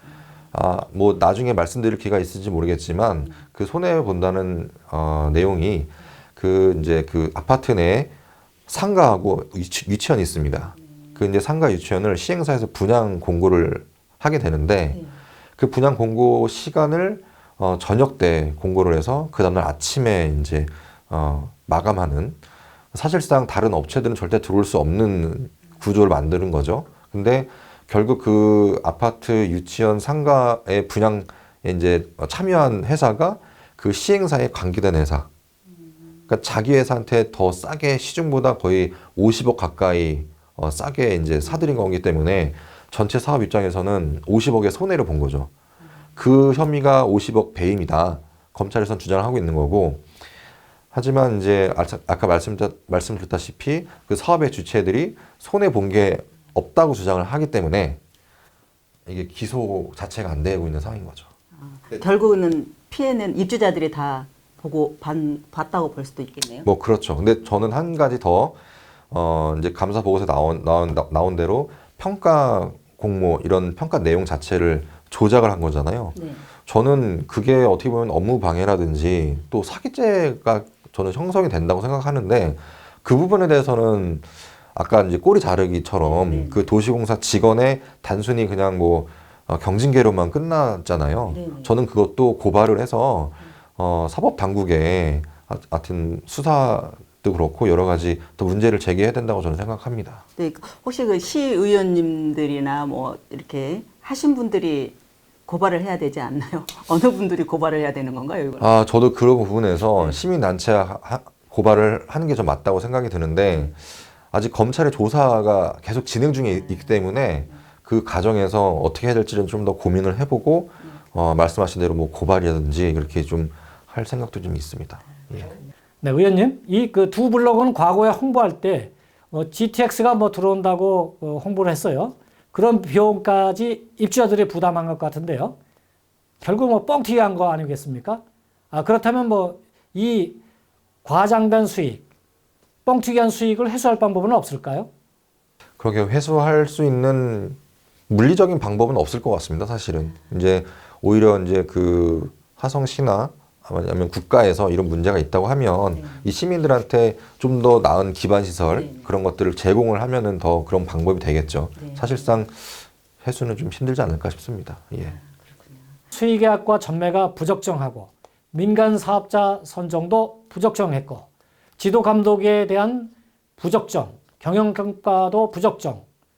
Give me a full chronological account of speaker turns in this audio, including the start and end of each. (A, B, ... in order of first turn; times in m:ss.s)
0:00.5-0:08.1 A
0:08.7-0:15.0 A
0:15.6-0:22.4 A
0:22.9-0:35.3 A
0:36.3-0:45.5 A
0:46.2-0:50.0 A
0:50.9-0:58.0 A
0:59.0-1:01.3 A
1:01.6-1:06.7 B
1:06.6-1:08.6 A
1:09.1-1:40.2 A
1:16.1-1:16.4 B
1:26.0-1:26.7 B
1:31.3-1:31.7 B
1:40.4-1:45.0 B
1:45.5-1:48.8 B
1:48.6-2:05.5 A
1:49.8-1:50.2 B
1:56.5-1:57.0 B
2:06.0-2:15.6 C
2:16.4-2:20.4 C
2:21.0-2:22.0 C
2:22.8-2:24.9 C
2:25.8-2:27.6 A
2:28.1-2:45.2 A
2:35.9-2:36.2 B
2:38.7-2:39.1 B
2:41.8-2:42.2 B
2:45.0-2:45.6 B
2:46.1-2:56.0 C